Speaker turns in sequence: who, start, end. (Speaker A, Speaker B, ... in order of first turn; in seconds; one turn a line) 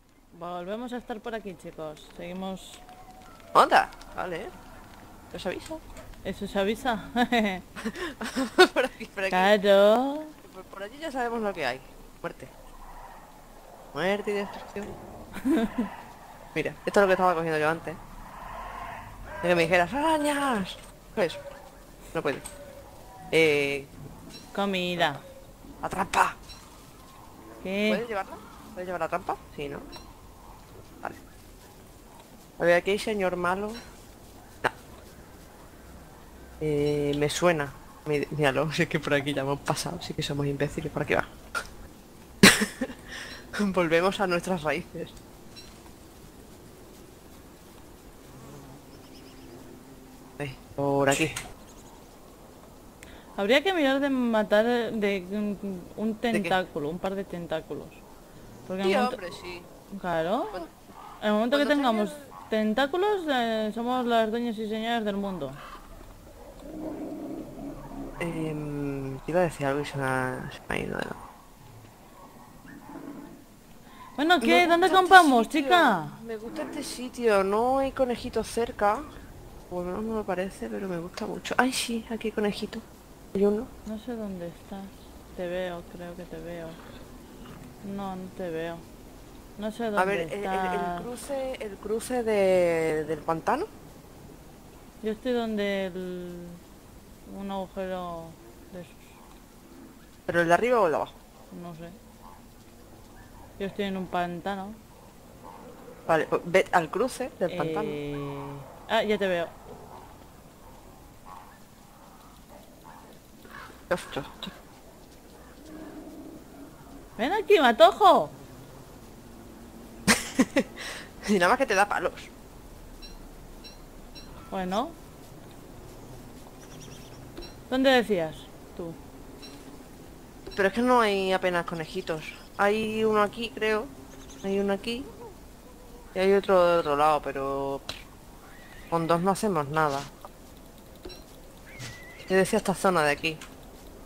Speaker A: 0.3-2.8
Speaker B: 3.5-4.5
Speaker B: 5.3-5.8
Speaker A: 6.2-7.6
Speaker B: 7.8-9.5
Speaker A: 9.3-10.3
Speaker B: 10.4-12.5
Speaker B: 13.9-14.9
Speaker A: 15.4-15.9
Speaker B: 16.5-18.0
Speaker B: 19.4-21.4
Speaker B: 22.1-22.4
Speaker B: 23.3-23.9
Speaker A: 24.5-25.2
Speaker B: 24.9-25.2
Speaker B: 25.8-26.4
Speaker A: 27.6-28.0
Speaker B: 27.9-29.9
Speaker B: 32.6-33.8
Speaker B: 36.6-41.3
Speaker B: 42.4-45.1
Speaker B: 50.4-51.4
Speaker A: 53.4-58.0
Speaker A: 58.7-59.2
Speaker B: 58.8-59.7
Speaker A: 59.9-60.6
Speaker A: 61.2-65.6
Speaker B: 61.5-62.3
Speaker B: 68.2-71.2
Speaker A: 74.2-76.2
Speaker B: 74.4-79.1
Speaker B: 79.7-82.8
Speaker B: 83.3-83.7
Speaker A: 83.8-86.8
Speaker A: 87.8-88.8
Speaker A: 89.6-91.1
Speaker B: 90.0-93.7
Speaker A: 95.0-96.6
Speaker A: 97.3-99.2
Speaker B: 100.3-101.1
Speaker A: 101.5-102.0
Speaker A: 103.6-104.8
Speaker B: 106.1-108.0
Speaker A: 107.5-109.5
Speaker B: 113.9-114.5
Speaker A: 117.2-118.3
Speaker B: 120.1-122.3
Speaker A: 124.5-125.0
Speaker A: 127.7-129.0
Speaker B: 130.5-133.9
Speaker B: 134.4-135.1
Speaker B: 136.1-137.9
Speaker B: 138.9-140.1
Speaker B: 142.3-143.4